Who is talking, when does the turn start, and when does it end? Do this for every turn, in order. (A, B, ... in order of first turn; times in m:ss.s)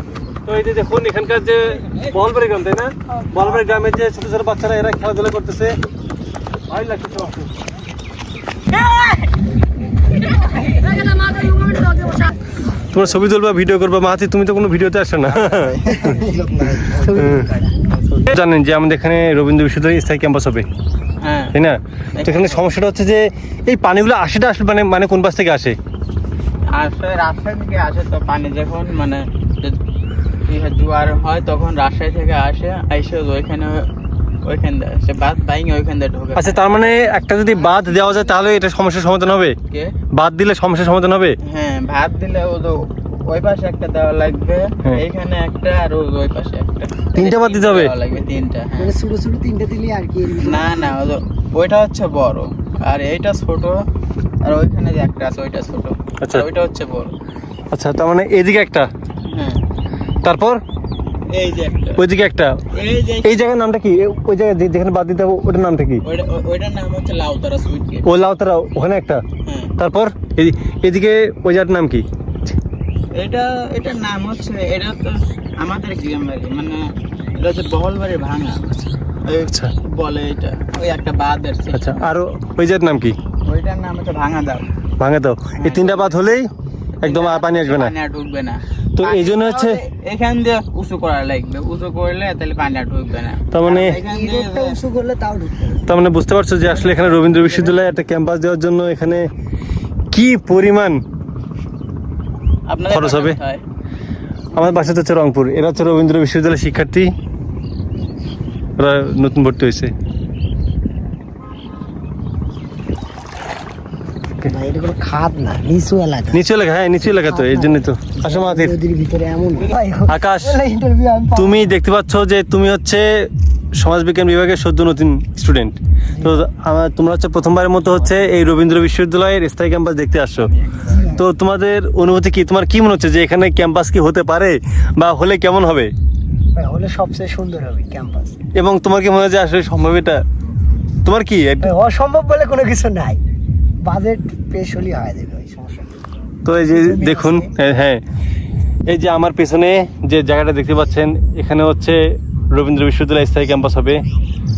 0:00.4-0:05.8 A
0:06.7-0:07.5 A
0:12.9-0:16.2 A
0:15.5-0:18.0 B
0:17.2-0:17.5 A
0:18.3-0:20.7 A
0:21.2-0:21.5 C
0:21.5-0:25.8 A
0:22.2-0:22.6 C
0:26.7-0:29.8 C
0:30.5-0:33.9 C
0:34.4-0:37.0 C
0:36.4-0:39.6 A
0:40.2-0:41.4 A
0:41.4-0:48.9 C
0:47.2-0:47.9 A
0:48.8-0:51.0 B
0:50.4-0:53.8 C
0:54.4-0:57.1 C
0:56.2-0:56.4 A
0:57.7-0:58.9 A
0:59.3-0:59.6 C
1:00.2-1:00.6 A
1:01.3-1:02.0 C
1:02.0-1:02.6 A
1:02.7-1:03.3 C
1:03.2-1:06.0 A
1:06.0-1:08.0 C
1:08.0-1:09.2 A
1:09.4-1:09.7 C
1:09.8-1:12.0 A
1:13.1-1:18.7 C
1:18.8-1:19.7 A
1:19.2-1:22.0 C
1:21.7-1:23.2 A
1:23.4-1:24.6 C
1:25.0-1:26.5 A
1:25.6-1:26.2 C
1:27.0-1:34.8 C
1:27.0-1:27.9 A
1:29.0-1:29.8 A
1:33.5-1:34.0 A
1:34.0-1:35.8 B
1:35.9-1:39.3 A
1:40.1-1:41.0 A
1:42.7-1:43.6 C
1:42.9-1:43.4 A
1:44.5-1:47.1 A
1:48.8-1:49.9 A
1:54.4-1:56.4 B
1:56.3-1:58.7 A
1:57.2-2:01.7 B
2:00.1-2:00.6 A
2:01.3-2:10.5 A
2:06.1-2:06.4 B
2:10.8-2:11.2 B
2:11.1-2:15.9 A
2:16.6-2:18.4 B
2:18.6-2:20.2 A
2:21.0-2:21.7 A
2:21.6-2:23.2 B
2:23.8-2:26.0 B
2:26.4-2:28.0 A
2:26.6-2:27.5 B
2:28.9-2:32.0 A
2:32.5-2:34.0 A